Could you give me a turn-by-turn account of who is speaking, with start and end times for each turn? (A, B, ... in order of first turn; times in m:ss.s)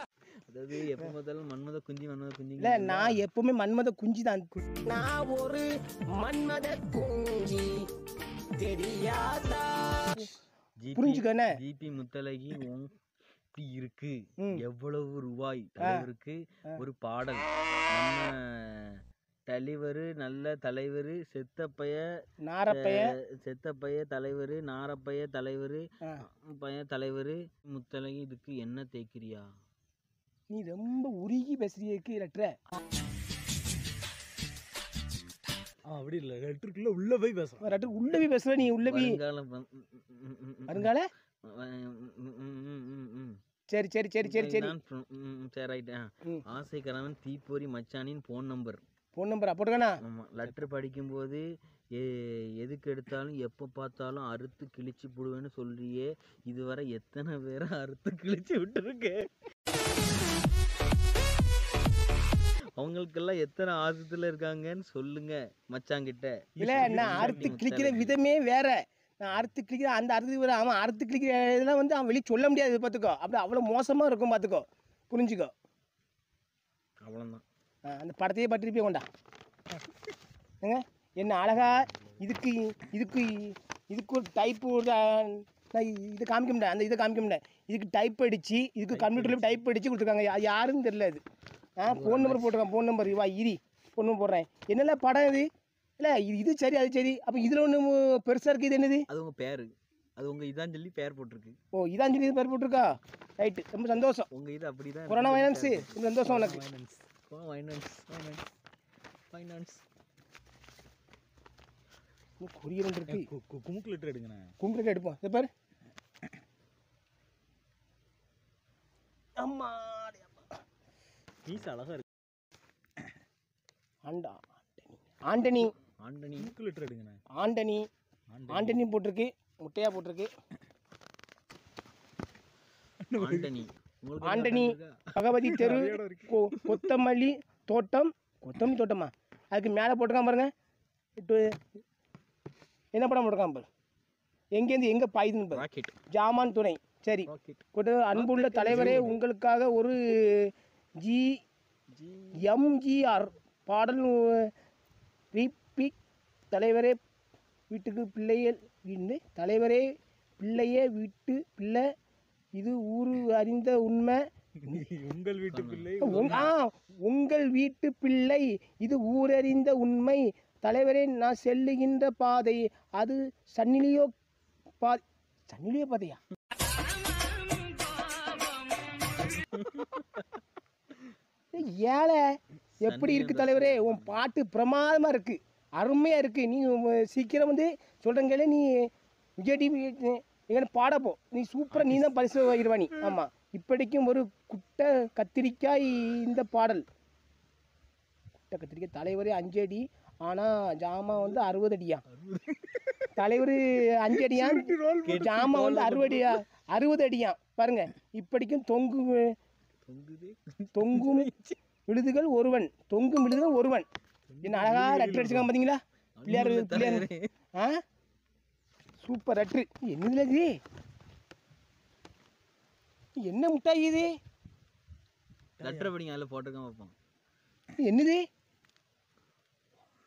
0:00.5-0:03.2 A
0:02.6-0:07.9 B
0:08.6-0:10.3 B
0:10.8-0:12.9 A
0:11.0-0:11.5 B
0:13.5-0:22.0 A
0:15.8-0:16.0 B
0:22.4-0:23.1 B
0:22.7-0:29.5 A
0:30.5-0:32.5 B
0:35.8-0:37.8 C
0:37.6-0:39.2 B
0:38.6-0:40.9 A
0:40.7-0:41.1 B
0:41.4-0:43.4 A
0:43.7-0:44.7 B
0:44.2-0:48.8 A
0:49.1-0:50.0 B
0:50.0-0:51.4 A
0:51.9-0:59.3 A
1:02.8-1:08.1 A
1:06.6-1:07.6 C
1:06.6-1:15.5 B
1:17.0-1:17.4 A
1:17.8-1:19.0 B
1:20.6-1:31.2 B
1:28.9-1:29.6 C
1:31.8-1:35.4 B
1:31.9-1:32.6 A
1:36.0-1:39.0 B
1:39.1-1:41.6 A
1:41.7-1:44.3 B
1:44.3-1:46.0 A
1:45.1-1:46.6 B
1:46.2-1:47.0 C
1:47.3-1:48.4 A
1:49.3-1:49.8 A
1:52.4-1:53.3 B
1:53.1-1:54.5 C
1:54.6-1:55.5 B
1:59.4-2:00.4 B
2:01.4-2:02.0 C
2:04.0-2:05.7 B
2:06.0-2:06.5 A
2:06.4-2:07.2 C
2:07.3-2:07.8 B
2:08.3-2:08.8 C
2:08.5-2:10.3 B
2:13.0-2:13.5 C
2:13.1-2:15.0 A
2:14.2-2:20.5 B
2:15.4-2:16.4 C
2:21.2-2:21.6 B
2:22.9-2:23.6 B
2:24.6-2:31.4 B
2:25.5-2:26.0 A
2:27.3-2:27.6 A
2:28.2-2:29.1 A
2:28.3-2:29.2 C
2:31.9-2:32.5 A
2:32.4-2:34.5 B
2:35.3-2:35.9 B
2:36.5-2:37.0 B
2:37.7-2:39.8 B
2:40.4-2:41.8 B
2:42.6-2:44.2 B
2:44.6-2:46.5 C
2:45.5-2:46.5 A
2:46.0-2:54.1 B
2:54.8-2:56.2 B
2:59.5-3:00.2 A
3:01.5-3:02.2 B
3:02.8-3:04.2 A
3:02.8-3:08.9 B
3:09.4-3:16.8 B
3:18.5-3:22.0 B
3:22.1-3:22.8 A
3:23.2-3:29.3 B
3:24.1-3:26.2 C
3:25.0-3:26.2 A
3:29.8-3:31.6 A
3:30.7-3:31.3 B
3:31.9-3:33.9 B
3:34.3-3:35.5 C
3:34.4-3:37.8 B
3:36.2-3:37.3 A
3:39.0-3:40.6 B
3:43.2-3:44.1 B
3:45.6-3:45.9 C
3:45.6-3:46.9 A
3:47.8-3:48.2 B